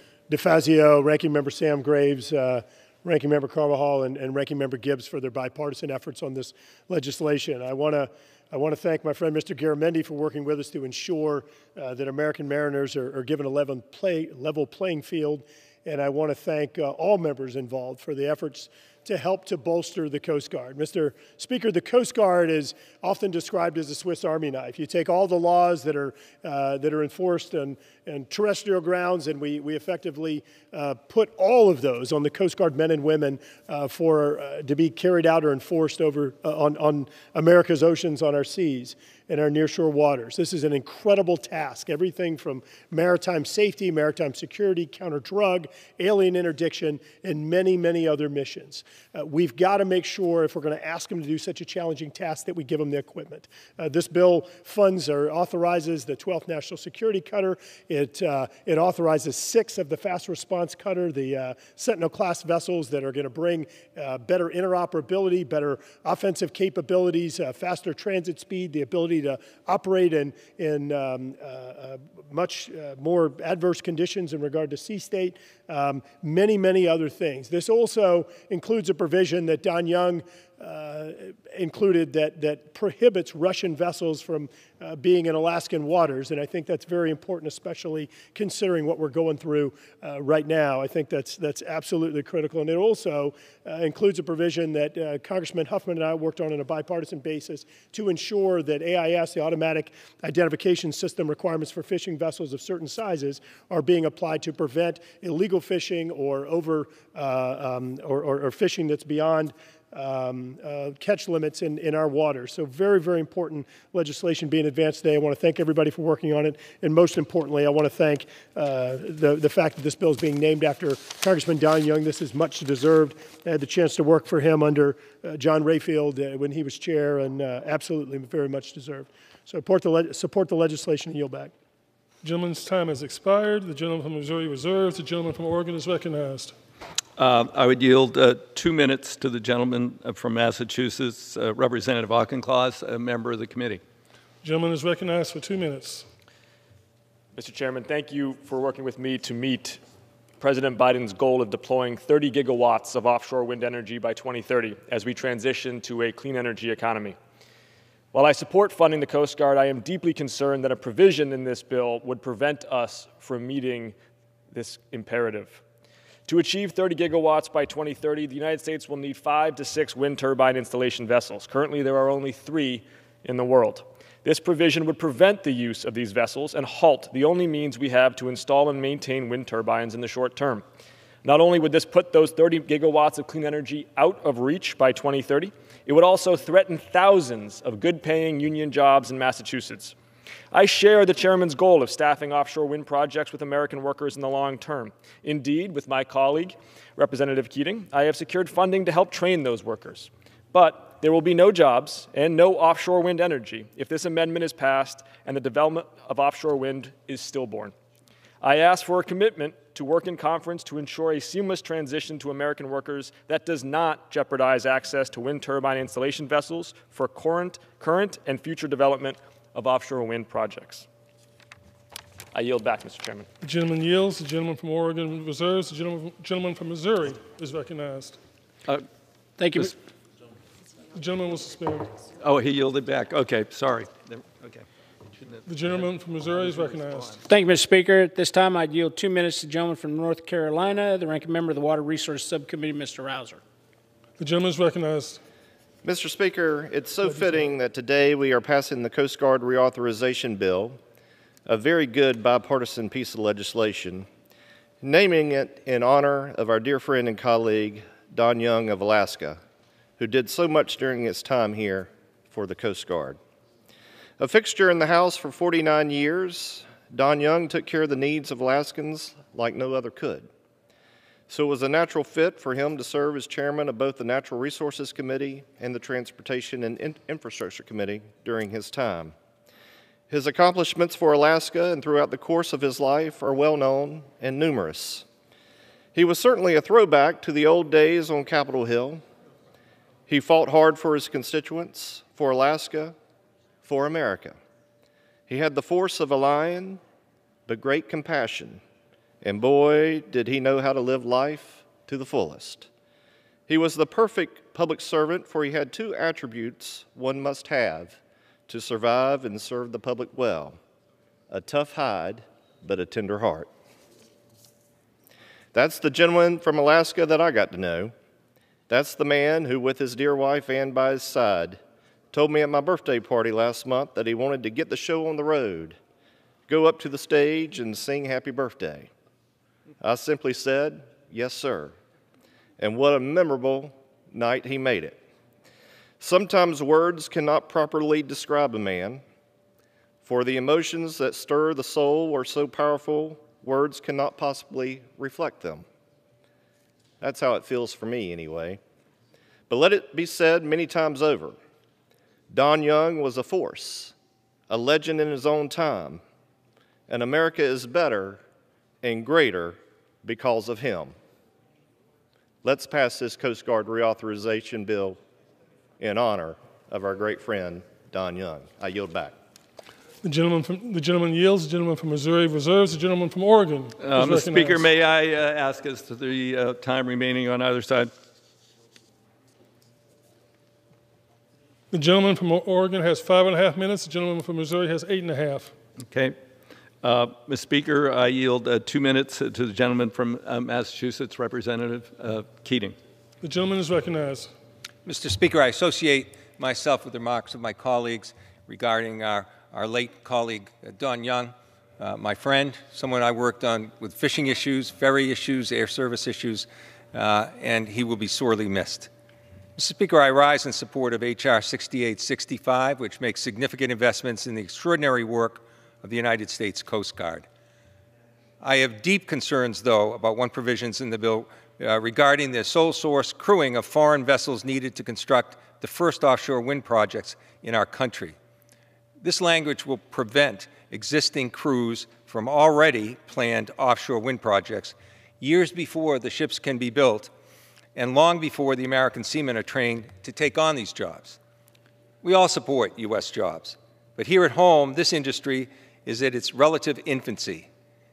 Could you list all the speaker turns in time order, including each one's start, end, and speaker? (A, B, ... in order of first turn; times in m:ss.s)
0:00.3-2:11.5 A
2:12.2-2:16.6 B
2:17.2-2:23.8 C
2:24.4-2:26.1 B
2:27.4-2:29.8 D
2:30.4-2:37.2 D
2:38.1-2:44.0 D
2:44.5-2:45.6 D
2:46.3-3:00.6 D
3:01.2-3:10.0 D
3:10.5-3:27.7 D
3:28.4-3:40.8 D
3:42.3-3:43.3 D
3:43.4-3:48.2 B
3:49.4-3:49.8 E
3:51.0-3:51.9 B
3:52.2-3:54.6 C
3:55.2-3:57.2 C
3:55.5-3:57.2 B
3:57.3-4:03.4 E
4:04.2-4:05.2 B
4:05.8-4:10.8 F
4:07.1-4:07.4 B
4:11.5-4:14.1 F
4:14.8-4:19.4 F
4:20.0-4:23.2 F
4:24.2-4:30.3 F
4:31.3-4:39.1 F
4:40.1-4:45.1 F
4:46.0-4:49.0 F
4:50.1-4:53.0 F
4:53.6-4:54.4 F
4:55.3-4:56.8 F
4:57.5-4:58.6 F
4:59.2-5:02.7 F
5:03.5-5:10.6 F
5:11.3-5:13.5 F
5:15.5-5:17.9 F
5:18.7-5:21.6 F
5:22.1-5:25.8 F
5:26.5-5:28.9 F
5:29.8-5:31.8 F
5:32.6-5:35.0 F
5:36.0-5:39.0 F
5:40.0-5:45.6 F
5:47.0-5:48.6 F
5:49.5-5:51.4 F
5:52.3-5:53.9 F
5:54.5-5:56.0 F
5:56.9-5:58.2 F
5:58.8-6:01.0 F
6:02.4-6:05.0 F
6:05.8-6:09.2 F
6:10.0-6:14.7 B
6:13.8-6:17.9 C
6:21.7-6:25.5 B
6:25.9-6:26.2 C
6:26.8-6:32.8 C
6:33.2-6:34.3 B
6:34.9-6:48.9 G
6:49.6-6:57.3 G
6:58.4-7:08.2 G
7:09.0-7:17.1 G
7:17.8-7:21.2 G
7:22.0-7:27.5 G